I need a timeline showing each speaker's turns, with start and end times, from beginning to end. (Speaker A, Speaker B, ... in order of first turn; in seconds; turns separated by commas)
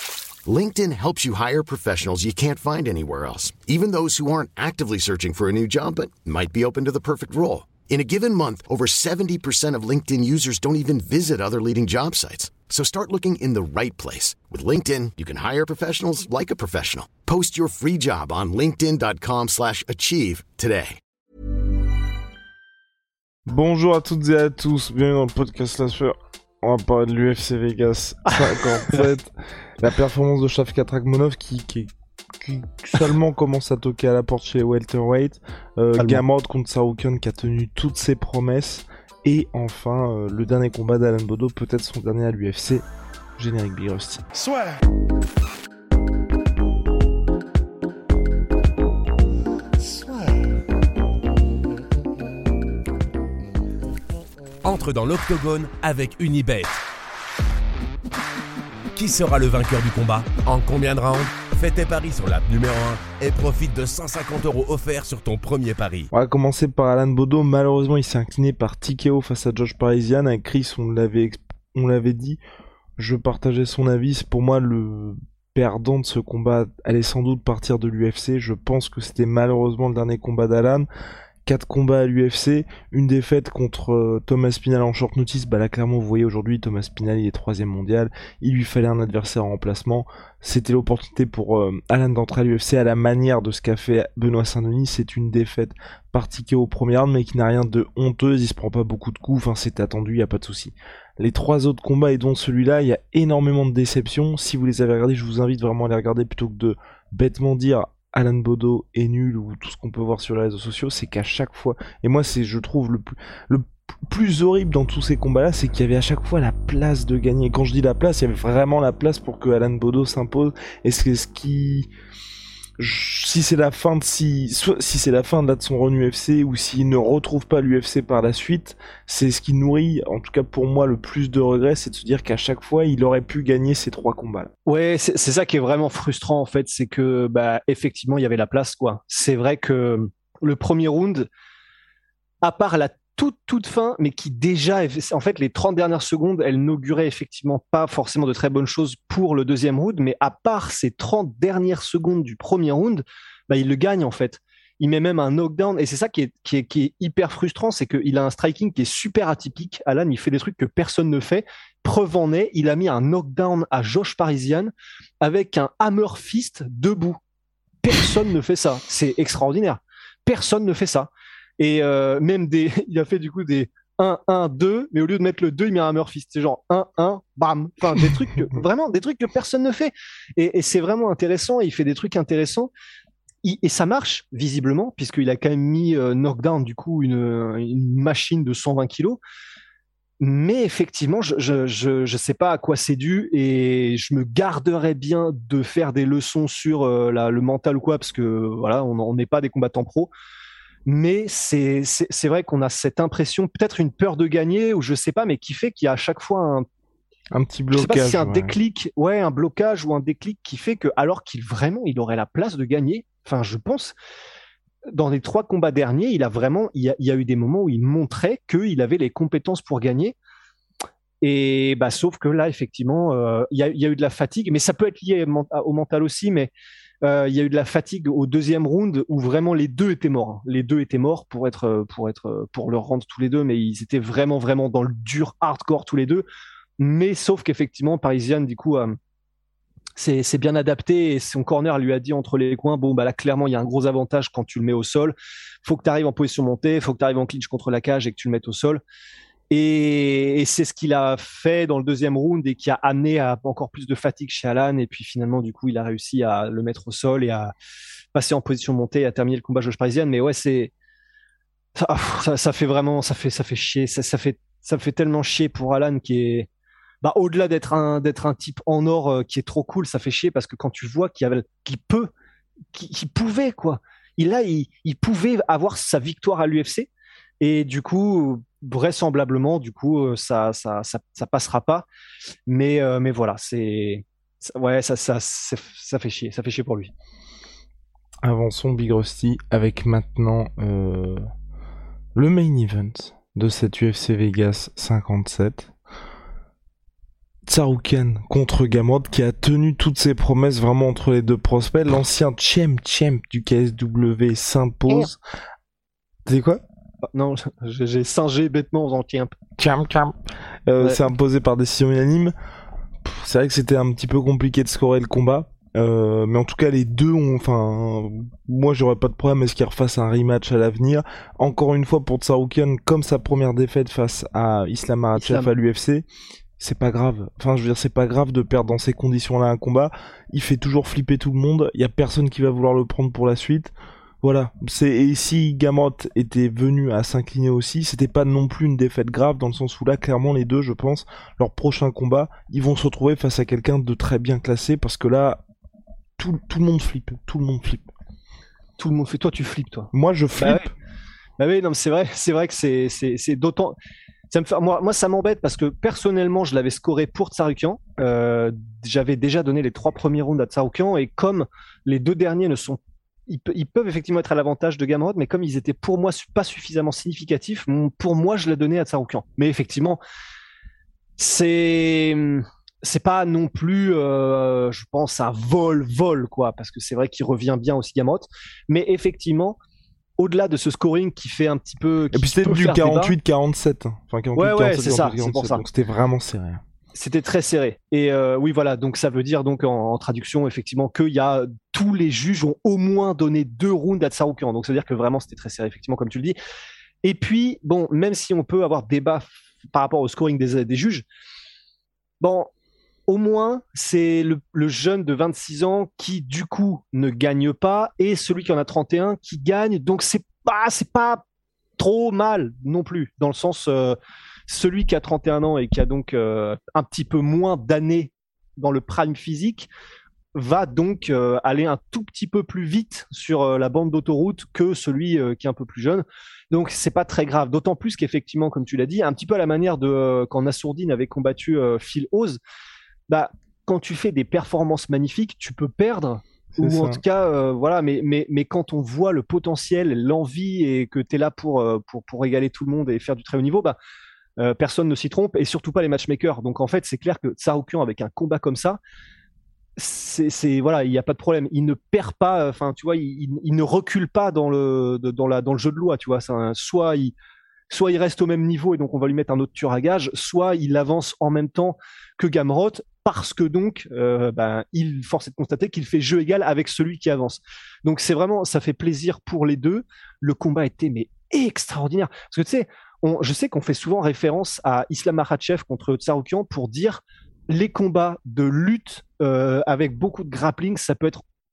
Speaker A: 0.5-21.0, Speaker B: 23.5-42.8, Speaker C: 36.0-36.2, Speaker B: 43.4-44.2, Speaker D: 54.6-56.8, Speaker D: 59.0-66.1, Speaker B: 66.1-72.4, Speaker B: 73.0-80.9, Speaker B: 81.4-121.9, Speaker B: 122.8-134.5, Speaker C: 134.7-141.3, Speaker C: 142.4-167.2, Speaker C: 167.8-182.7, Speaker C: 183.4-189.2, Speaker C: 190.2-200.1, Speaker C: 200.8-206.6, Speaker B: 207.3-208.6, Speaker C: 207.7-213.9, Speaker C: 214.9-220.1, Speaker C: 221.2-236.2, Speaker C: 236.8-238.9, Speaker C: 240.0-248.8, Speaker C: 249.5-257.5, Speaker C: 258.1-260.7, Speaker C: 261.8-266.5, Speaker C: 267.0-272.1, Speaker C: 272.7-276.9, Speaker C: 277.4-281.9, Speaker C: 282.5-286.9, Speaker B: 288.2-291.2, Speaker B: 292.1-295.7, Speaker B: 297.5-305.2, Speaker B: 306.2-306.6, Speaker C: 307.1-309.3, Speaker B: 309.6-310.1, Speaker B: 310.7-312.3, Speaker B: 313.0-326.1, Speaker C: 325.1-325.5, Speaker B: 326.6-345.4, Speaker B: 346.2-347.9, Speaker C: 348.8-350.6, Speaker B: 349.9-350.7, Speaker C: 351.4-353.7, Speaker C: 354.3-370.0, Speaker C: 371.2-379.6, Speaker C: 380.2-383.1, Speaker B: 382.1-386.6, Speaker C: 384.4-385.6, Speaker C: 386.9-396.4, Speaker C: 397.0-401.0, Speaker C: 402.2-402.5, Speaker C: 403.1-411.2, Speaker C: 411.8-413.9, Speaker C: 414.5-419.7, Speaker C: 420.3-432.4, Speaker C: 433.1-443.8, Speaker B: 436.5-437.0, Speaker C: 444.4-448.8, Speaker C: 449.8-457.1, Speaker C: 457.7-481.2